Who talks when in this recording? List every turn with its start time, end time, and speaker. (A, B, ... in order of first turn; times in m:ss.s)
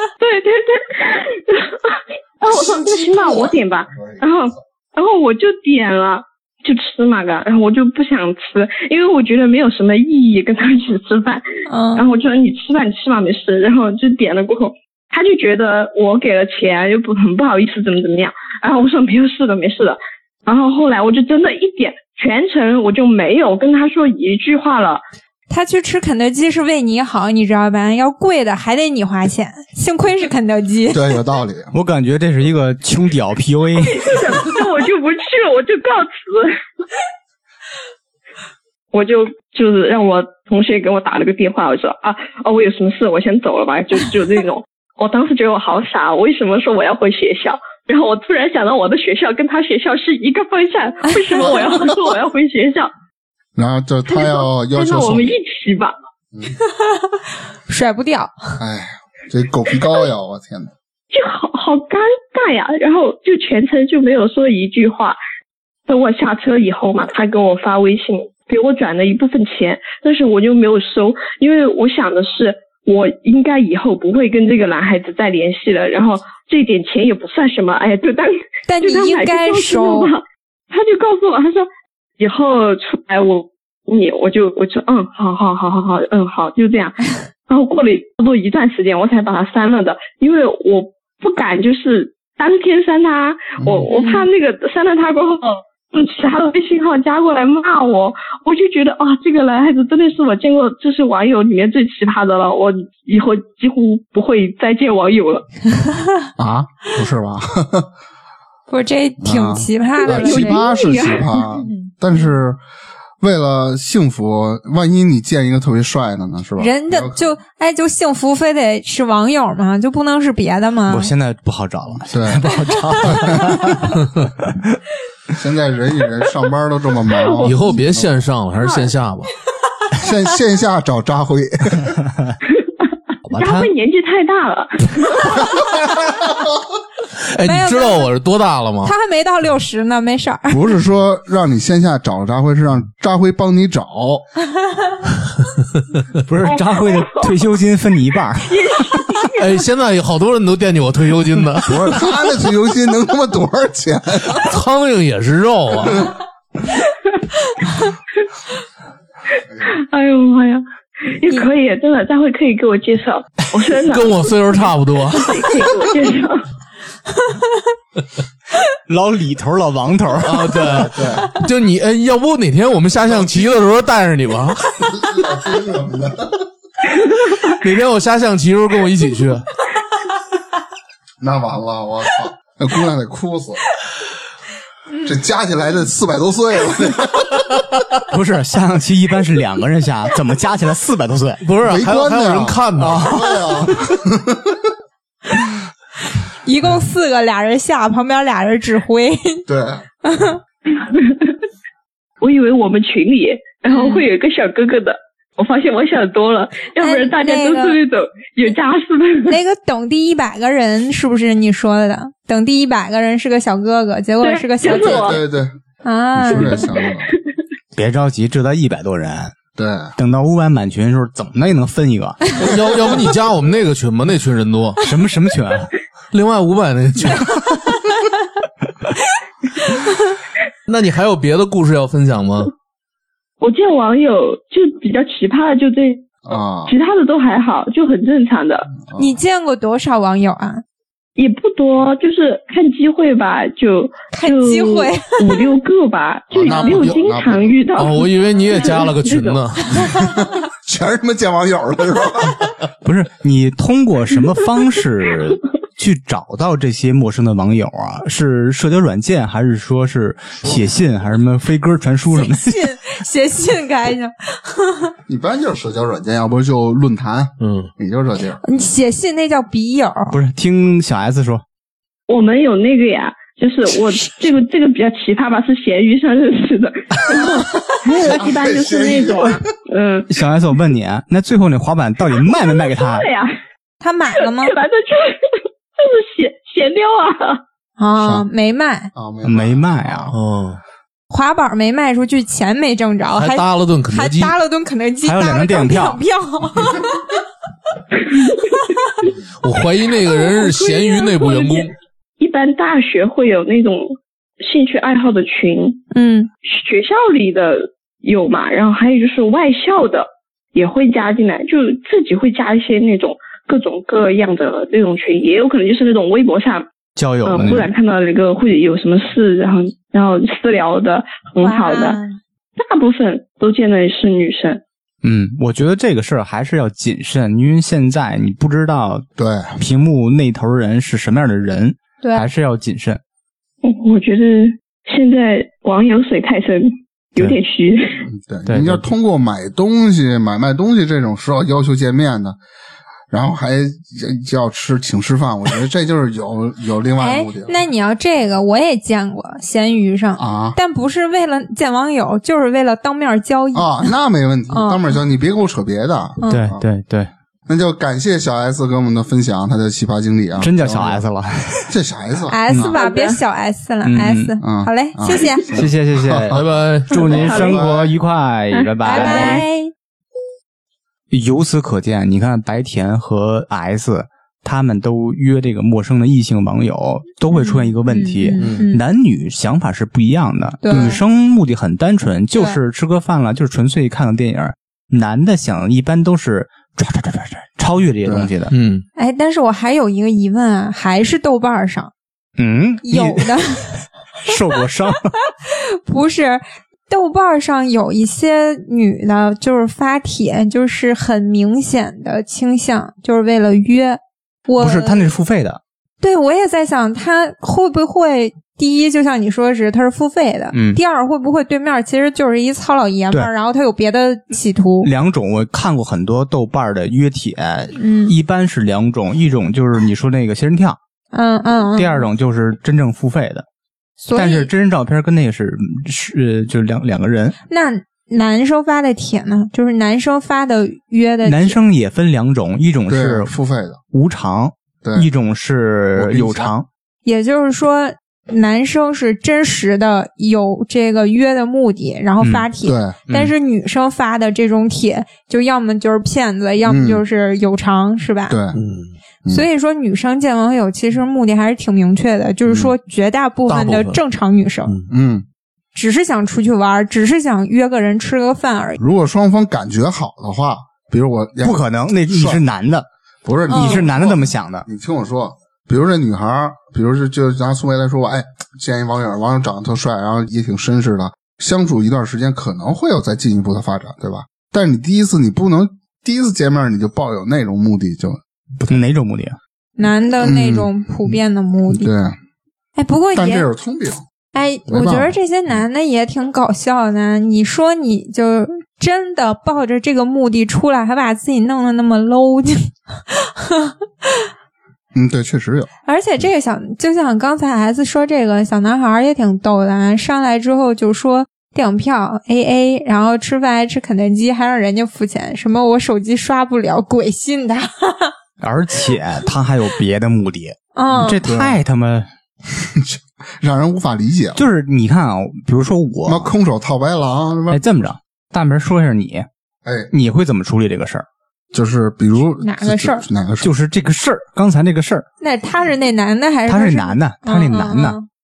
0:00.2-0:11.4 A
0:03.0-0:04.3 B
0:11.6-0:12.0 C
0:12.0-0:25.0 A
0:25.5-0:31.0 C
0:30.9-0:31.7 B
0:31.7-0:34.6 D
0:33.8-0:36.6 A
0:38.9-0:52.9 A
0:51.1-0:51.5 C
0:53.6-0:55.4 B
0:54.1-0:55.9 A
0:56.8-0:58.6 C
0:58.6-1:00.7 B
1:01.1-1:05.2 A
1:05.9-1:45.5 A
1:18.7-1:20.1 C
1:33.6-1:33.9 B
1:33.9-1:34.3 C
1:45.8-1:46.3 C
1:46.4-1:47.9 B
1:48.7-1:50.6 C
1:49.2-1:52.6 B
1:50.0-1:51.4 A
1:53.2-1:57.2 B
1:56.6-2:01.1 C
2:00.9-2:04.6 D
2:02.0-2:03.9 B
2:05.4-2:08.2 B
2:07.4-2:09.3 E
2:10.0-2:12.0 B
2:13.3-2:13.7 E
2:13.4-2:15.3 A
2:17.2-2:18.9 E
2:17.4-2:18.1 C
2:18.8-2:20.6 C
2:20.5-2:24.2 B
2:26.3-2:29.0 D
2:26.4-2:27.3 A
2:28.5-2:29.3 A
2:29.3-2:32.0 E
2:31.6-2:34.5 B
2:34.3-2:36.1 E
2:39.6-2:46.4 A
2:43.8-2:45.7 E
2:48.9-2:50.9 D
2:50.2-2:55.2 E
2:50.7-2:51.3 B
2:54.9-2:56.4 B
2:57.4-2:59.5 E
3:01.2-3:03.6 B
3:05.0-3:07.4 B
3:08.1-3:11.4 D
3:11.4-3:13.9 E
3:11.6-3:14.6 B
3:12.8-3:13.4 D
3:16.4-3:19.4 C
3:19.5-3:19.8 B
3:20.0-3:20.4 C
3:20.7-3:21.3 A
3:22.2-3:29.4 A
3:23.7-3:24.0 C
3:26.8-3:27.8 C
3:29.2-3:35.2 C
3:34.2-3:35.2 A
3:34.6-3:35.5 B
3:35.8-3:36.7 C
3:36.2-3:37.1 B
3:37.7-3:39.3 D
3:39.6-3:39.9 B
3:40.0-3:42.4 D
3:42.4-3:44.8 E
3:44.8-3:45.7 D
3:46.1-3:47.5 E
3:50.6-3:52.5 E
3:53.4-3:56.1 A
3:56.2-3:56.7 B
3:56.7-3:58.7 A
3:58.7-3:59.2 B
3:59.0-4:00.6 C
4:01.2-4:09.4 A
4:04.1-4:05.5 C
4:06.3-4:07.6 B
4:06.7-4:07.0 E
4:07.8-4:09.9 E
4:09.7-4:12.6 B
4:12.8-4:22.7 D
4:22.1-4:24.9 C
4:25.1-4:28.4 B
4:27.4-4:27.7 E
4:28.4-4:30.2 C
4:30.1-4:31.4 D
4:32.1-4:40.1 A
4:37.1-4:37.4 B
4:38.0-4:39.4 B
4:40.1-4:43.1 D
4:42.4-4:43.4 A
4:43.8-4:44.5 C
4:44.2-4:47.4 A
4:47.8-4:48.9 C
4:48.0-4:48.3 B
4:48.9-4:50.1 B
4:49.2-4:50.1 D
4:50.1-4:50.6 E
4:51.1-4:57.1 C
4:53.1-4:54.4 E
4:55.0-4:56.0 D
4:59.4-5:01.7 E
5:00.3-5:01.7 A
5:02.2-5:05.8 A
5:05.9-5:06.3 C
5:06.4-5:16.7 A
5:17.0-5:17.7 D
5:17.2-5:22.0 A
5:21.4-5:22.2 C
5:22.6-5:24.6 A
5:25.0-5:29.0 D
5:29.2-5:29.6 B
5:29.6-5:33.0 D
5:32.0-5:32.3 C
5:33.6-5:38.1 A
5:38.1-5:42.4 B
5:38.5-5:38.8 D
5:43.1-5:47.6 B
5:47.0-5:53.9 C
5:50.2-5:50.6 B
5:53.5-5:56.6 B
5:54.5-5:55.0 C
5:56.2-5:56.5 C
5:56.3-5:57.1 D
5:57.5-6:01.0 B
6:00.4-6:01.7 D
6:01.7-6:02.8 B
6:02.3-6:05.5 C
6:02.6-6:03.2 A
6:03.8-6:04.4 D
6:04.4-6:06.2 B
6:05.5-6:09.4 D
6:06.1-6:07.6 E
6:07.0-6:07.5 A
6:07.1-6:07.9 B
6:08.5-6:09.4 A
6:08.8-6:09.7 C
6:11.1-6:28.5 D
6:17.3-6:18.8 C
6:18.4-6:18.7 E
6:20.6-6:21.0 C
6:20.7-6:21.0 B
6:22.3-6:22.6 C
6:28.0-6:28.3 B
6:28.5-6:28.8 E
6:29.0-6:31.9 C
6:32.4-6:33.4 D
6:32.8-6:33.8 C
6:34.2-6:35.1 D
6:35.4-6:45.1 C
6:44.6-6:45.6 D
6:46.0-6:54.9 C
6:50.5-6:50.8 D
6:54.8-7:00.8 D
6:57.8-6:58.1 C
7:01.1-7:02.1 C
7:01.7-7:03.4 D
7:04.0-7:04.5 C
7:04.1-7:07.4 D
7:07.5-7:11.6 C
7:11.2-7:13.3 D
7:12.9-7:13.8 B
7:13.9-7:16.7 D
7:14.8-7:15.1 B
7:16.0-7:16.5 B
7:17.0-7:28.4 C
7:22.2-7:22.5 D
7:22.6-7:23.0 B
7:26.6-7:27.0 B
7:28.3-7:28.6 B
7:28.5-7:28.9 E
7:29.3-7:34.7 C
7:32.4-7:32.7 B
7:33.5-7:34.0 E
7:34.9-7:35.2 B
7:35.7-7:38.8 C
7:38.8-7:42.4 B
7:41.4-7:42.9 D
7:43.2-7:58.8 B
7:43.5-7:43.8 C
7:43.5-7:44.6 D
7:58.7-7:59.4 D
7:59.8-8:01.9 C
8:00.2-8:01.1 B
8:01.7-8:02.2 B
8:02.8-8:03.5 C
8:03.1-8:04.0 B
8:04.3-8:14.3 C
8:04.7-8:05.1 B
8:14.9-8:15.7 B
8:15.8-8:28.1 C
8:28.4-8:32.1 D
8:30.7-8:31.2 C
8:31.2-8:31.6 B
8:32.6-8:34.4 B
8:34.4-8:36.3 D
8:36.0-8:37.6 B
8:37.5-8:39.2 D
8:39.6-8:39.9 B
8:39.9-8:41.0 D
8:41.5-8:43.5 B
8:42.4-8:43.0 C
8:43.4-8:45.0 D
8:45.2-8:48.1 C
8:46.5-8:48.0 D